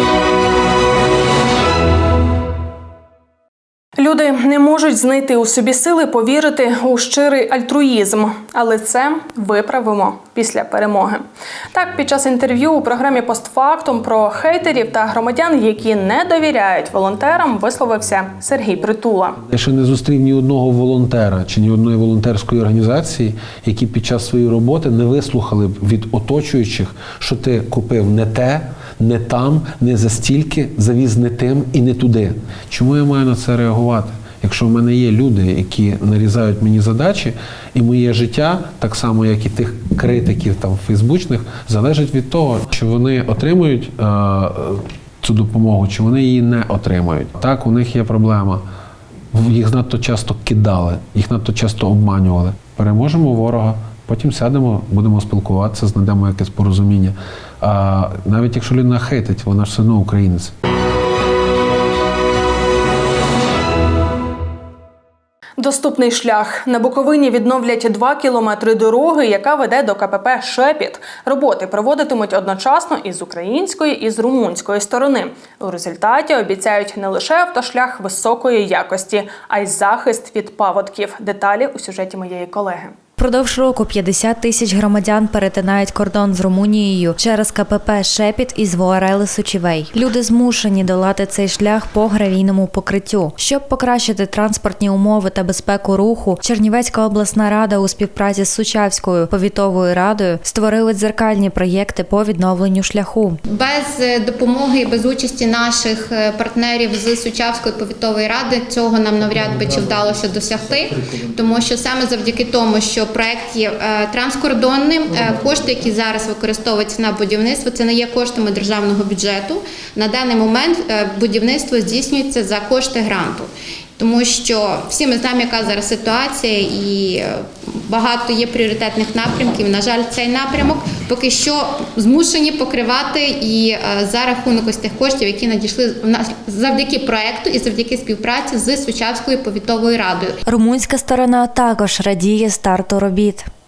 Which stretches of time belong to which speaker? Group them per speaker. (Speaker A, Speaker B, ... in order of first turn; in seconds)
Speaker A: 4.0-19.4, 65.6-83.0
Speaker B: 19.5-48.6, 49.3-60.5
Speaker C: 83.2-103.4, 140.5-143.5
Speaker D: 103.5-140.4